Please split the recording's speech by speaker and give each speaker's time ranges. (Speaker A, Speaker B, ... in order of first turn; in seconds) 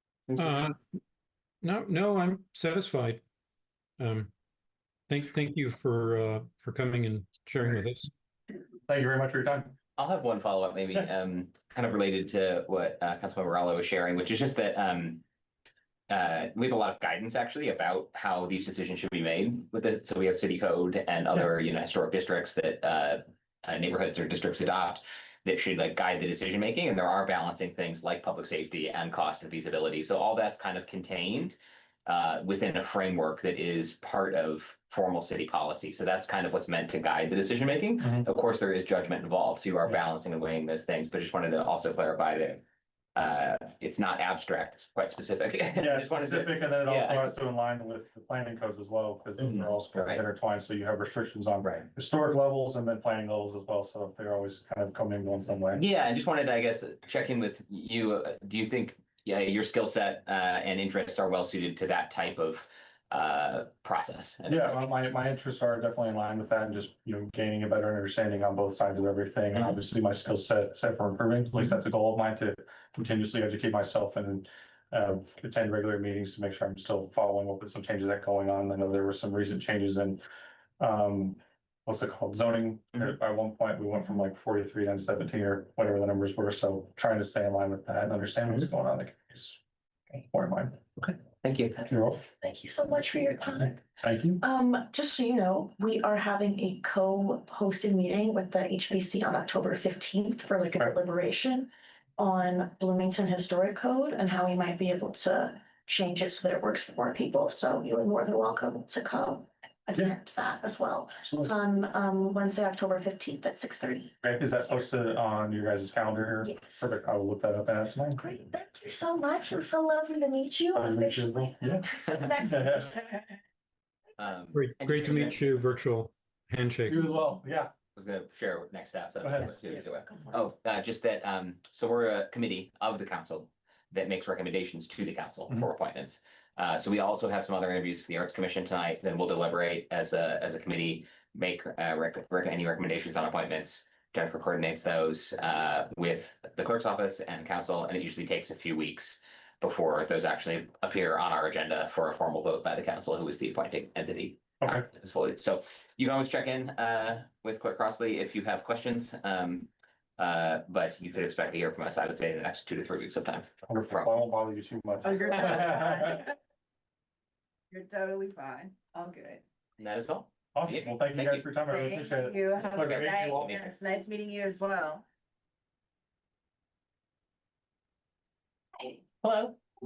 Speaker A: 0.3-0.6, 10.0-15.2, 16.1-42.6, 43.1-47.3, 49.4-50.2, 51.6-51.9, 55.8-64.9, 91.0-91.8, 124.2-125.5, 128.0-164.1, 169.8-171.5, 172.7-173.8, 179.2-179.6
Speaker B: 0.4-0.8, 1.6-3.2, 4.0-4.3, 5.1-8.1, 124.5-127.1
Speaker C: 8.9-9.8, 38.0-38.3, 45.8-55.8, 64.5-80.2, 80.8-89.6, 90.1-90.8, 91.8-92.3, 94.0-94.4, 111.2-111.5, 114.2-118.2, 120.8-122.9, 126.9-127.7, 129.2-129.7, 154.6-154.9, 163.7-166.2, 170.5-173.7
Speaker D: 92.2-93.8, 94.4-114.2, 116.4-117.0, 118.0-123.2
Speaker E: 165.0-166.1, 167.7-169.4, 171.7-175.0